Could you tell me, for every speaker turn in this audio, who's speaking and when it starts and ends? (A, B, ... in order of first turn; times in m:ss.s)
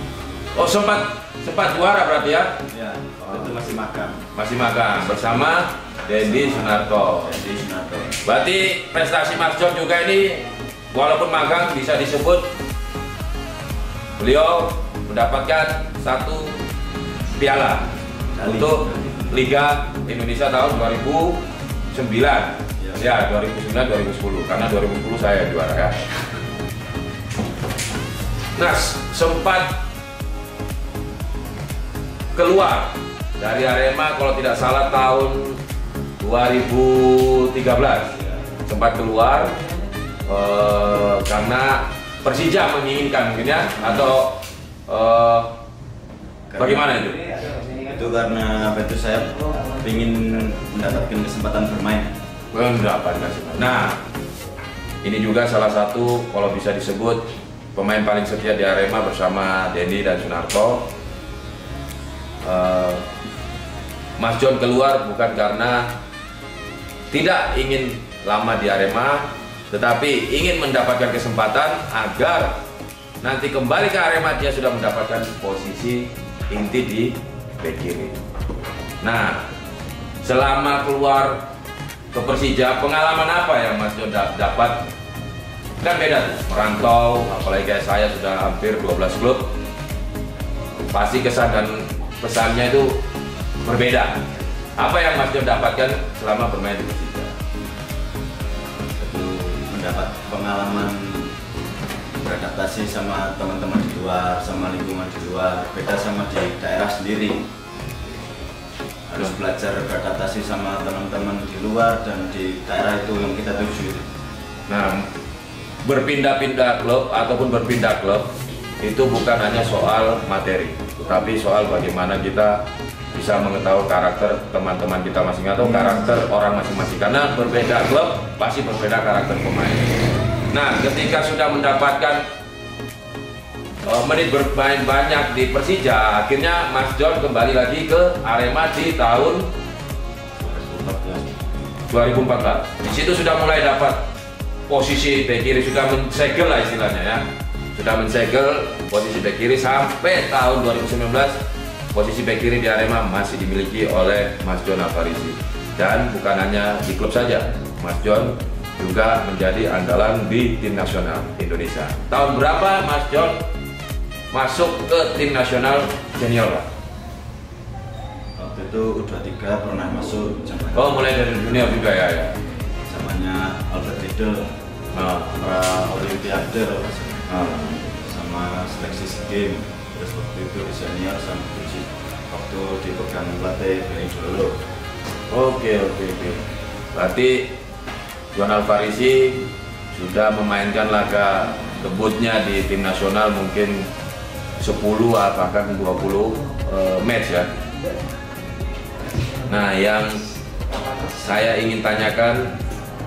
0:00.5-0:02.6 A
0:02.7-0:04.2 B
0:04.3-0:07.4 A
0:06.2-0:08.1 B
0:08.2-0:12.5 A
0:14.2-0:16.6 A
0:17.4-0:17.9 A
0:18.3-0:19.2 B
0:18.4-0:26.0 A
0:22.8-0:23.1 B
0:28.6-0:29.8 A
0:32.3-0:35.6 A
0:36.2-0:39.5 A
0:40.2-0:45.5 A
0:46.5-0:52.1 B
0:46.6-0:47.2 A
0:52.5-0:54.0 A
0:55.0-1:00.9 A
1:02.4-1:03.0 A
1:04.2-1:05.9 A
1:07.1-1:12.6 A
1:13.2-1:18.2 A
1:19.0-1:19.4 A
1:20.2-1:21.4 A
1:22.1-1:24.8 A
1:25.8-1:29.5 A
1:30.9-1:33.0 A
1:33.6-1:34.2 A
1:34.8-1:37.3 A
1:39.0-1:41.3 B
1:42.2-1:47.5 B
1:49.1-1:54.1 B
1:54.7-1:55.0 A
1:55.8-1:58.3 A
1:58.8-2:02.6 A
2:03.1-2:10.0 A
2:10.5-2:12.2 A
2:13.8-2:19.5 A
2:20.4-2:21.3 B
2:21.9-2:24.0 A
2:24.7-2:31.4 A
2:31.9-2:43.4 A
2:44.3-2:46.6 A
2:48.4-2:51.8 B
2:50.8-2:52.4 A
2:52.9-2:54.5 B
2:54.9-2:55.4 A
2:55.4-3:04.6 B
2:57.3-2:57.8 A
3:05.3-3:06.4 A
3:06.9-3:07.5 A
3:08.3-3:13.9 A
3:14.6-3:17.5 A
3:19.4-3:20.2 A
3:21.0-3:22.5 A